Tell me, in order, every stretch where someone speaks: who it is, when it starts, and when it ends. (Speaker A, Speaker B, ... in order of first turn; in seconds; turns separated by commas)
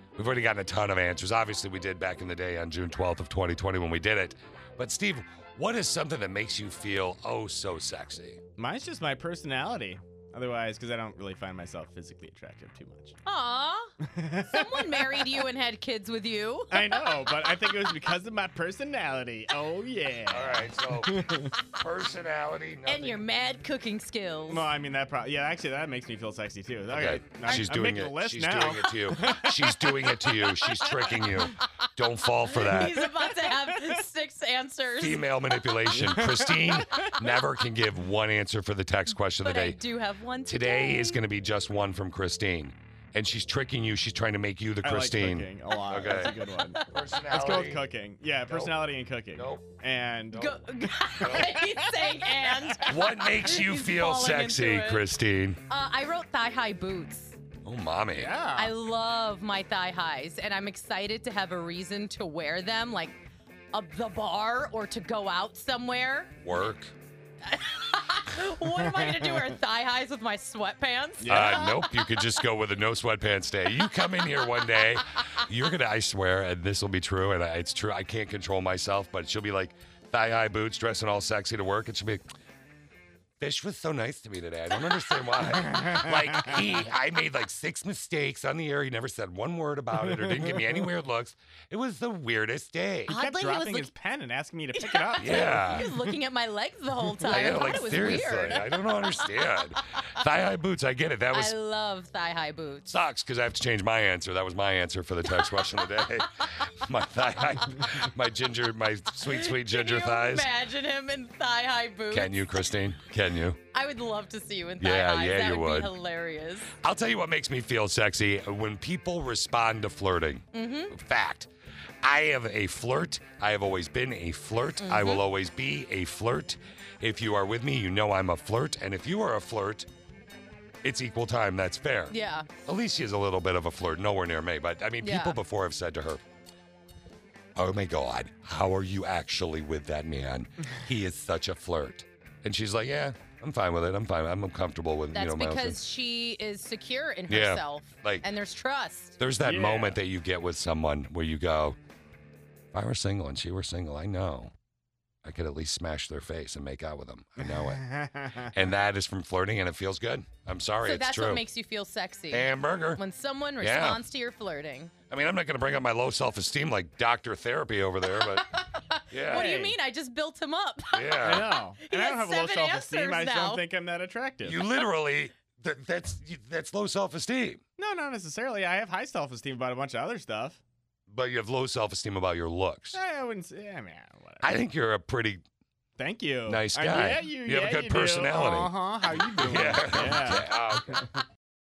Speaker A: 0.2-8.4, Speaker B: 8.6-13.2, Speaker C: 13.2-13.9, Speaker B: 14.0-15.4, Speaker C: 14.4-17.0, Speaker B: 16.7-21.5, Speaker A: 20.3-23.2, Speaker C: 22.9-24.7, Speaker B: 24.5-31.1, Speaker A: 26.9-33.1, Speaker C: 32.5-35.2, Speaker A: 35.0-39.8, Speaker B: 35.9-37.1, Speaker C: 39.4-41.2, Speaker A: 40.5-46.4, Speaker B: 44.8-52.7, Speaker A: 46.9-47.8, Speaker A: 48.5-48.7, Speaker A: 49.4-49.7, Speaker C: 50.4-55.1, Speaker A: 51.2-51.6, Speaker A: 52.8-55.6, Speaker C: 55.7-57.4, Speaker A: 57.6-58.3, Speaker B: 58.2-58.7, Speaker C: 58.6-63.2, Speaker C: 63.7-66.3, Speaker A: 66.4-66.9, Speaker C: 67.5-72.1, Speaker B: 68.9-69.5, Speaker B: 71.2-71.8, Speaker A: 71.3-82.2, Speaker A: 83.4-93.2, Speaker B: 85.6-86.5, Speaker B: 90.1-90.7, Speaker C: 93.1-93.9, Speaker B: 93.1-96.1, Speaker C: 94.8-99.8, Speaker A: 95.2-95.9, Speaker A: 97.2-101.5, Speaker C: 101.3-102.9, Speaker A: 102.9-110.5, Speaker C: 109.3-112.5, Speaker A: 112.1-113.6, Speaker C: 113.7-116.8, Speaker A: 114.8-115.9, Speaker A: 116.8-121.5, Speaker C: 120.5-121.0, Speaker A: 122.0-129.9, Speaker C: 124.8-125.2, Speaker A: 130.8-136.2, Speaker C: 132.1-132.5, Speaker C: 135.0-135.4, Speaker A: 137.6-145.8, Speaker C: 145.2-149.2, Speaker A: 147.3-148.3, Speaker A: 149.2-151.8, Speaker B: 149.4-150.0, Speaker A: 152.7-154.5, Speaker A: 155.2-157.8, Speaker B: 157.4-158.6, Speaker A: 158.5-161.4, Speaker C: 160.8-164.9, Speaker A: 162.3-163.0, Speaker A: 163.6-164.0, Speaker A: 165.1-168.5, Speaker C: 168.7-171.3, Speaker A: 169.1-169.5, Speaker B: 169.3-169.8, Speaker A: 170.9-171.5, Speaker B: 171.2-174.6, Speaker C: 171.8-173.6, Speaker A: 174.4-177.6, Speaker B: 177.8-180.6, Speaker A: 181.1-183.0, Speaker B: 182.9-184.5, Speaker A: 184.4-185.4, Speaker B: 186.0-190.5, Speaker A: 186.5-188.7, Speaker A: 189.4-191.0